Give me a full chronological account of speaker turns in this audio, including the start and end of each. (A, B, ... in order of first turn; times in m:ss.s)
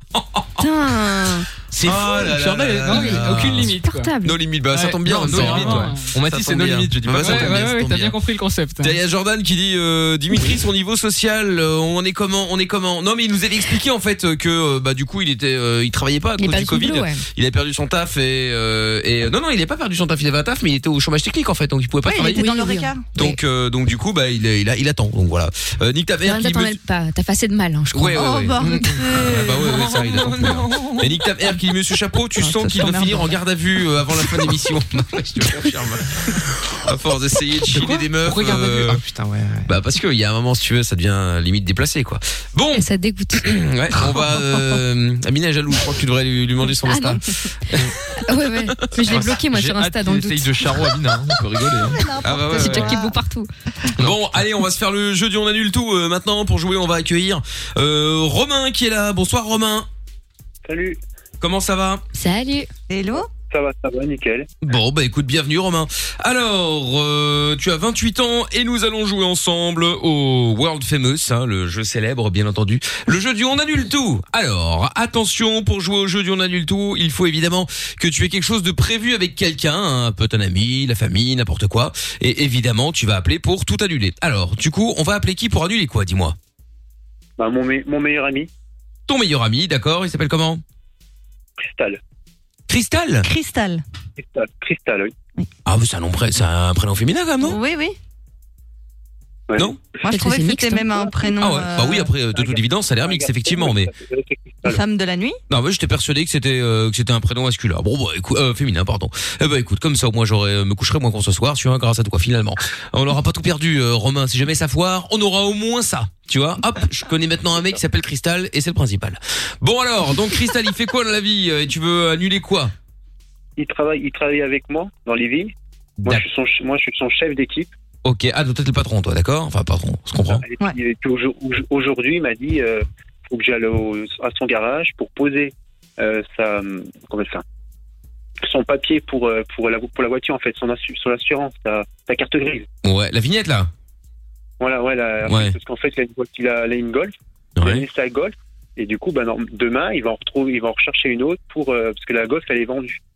0:00.2-0:00.7 A
0:00.6-0:01.5 B
0:01.8-0:08.2 A
0:01.8-0:04.1 C
0:02.9-0:04.4 B
0:04.7-0:06.1 C
0:04.8-0:07.6 D
0:07.2-0:09.0 C
0:08.8-0:22.5 A
0:16.4-0:17.2 B
0:22.1-0:23.1 E
0:22.2-0:23.4 B
0:23.2-0:26.8 A
0:26.2-0:28.7 B
0:27.9-0:39.0 A
0:28.1-0:29.9 E
0:32.4-0:33.4 E
0:37.7-0:39.7 D
0:39.7-0:48.0 A
0:42.7-0:43.6 B
0:46.8-0:47.2 B
0:48.2-0:50.6 B
0:48.5-0:49.2 A
0:49.1-0:52.1 D
0:51.4-0:53.0 A
0:51.8-0:53.2 E
0:52.5-0:53.5 B
0:54.0-0:54.3 D
0:54.0-0:59.9 A
1:00.6-1:01.0 F
1:01.4-1:02.0 A
1:02.1-1:02.7 B
1:02.9-1:03.3 E
1:03.5-1:04.5 F
1:04.6-1:26.4 A
1:27.4-1:28.5 F
1:29.1-1:30.6 A
1:31.6-1:32.0 F
1:32.7-1:33.3 A
1:33.2-1:33.8 E
1:34.2-1:35.1 F
1:35.7-1:37.6 A
1:37.4-1:38.0 E
1:39.5-1:39.7 F
1:39.6-1:39.8 A
1:40.0-1:42.1 E
1:40.0-1:41.1 B
1:41.4-1:43.9 A
1:42.3-1:44.8 F
1:44.6-1:45.4 E
1:45.5-2:02.7 A
2:03.6-2:05.5 F
2:06.0-2:07.7 F
2:08.0-2:10.4 A
2:10.3-2:17.4 F
2:18.4-2:22.7 F
2:22.8-2:23.7 A
2:24.6-2:33.0 F
2:25.2-2:25.6 A
2:27.6-2:27.9 A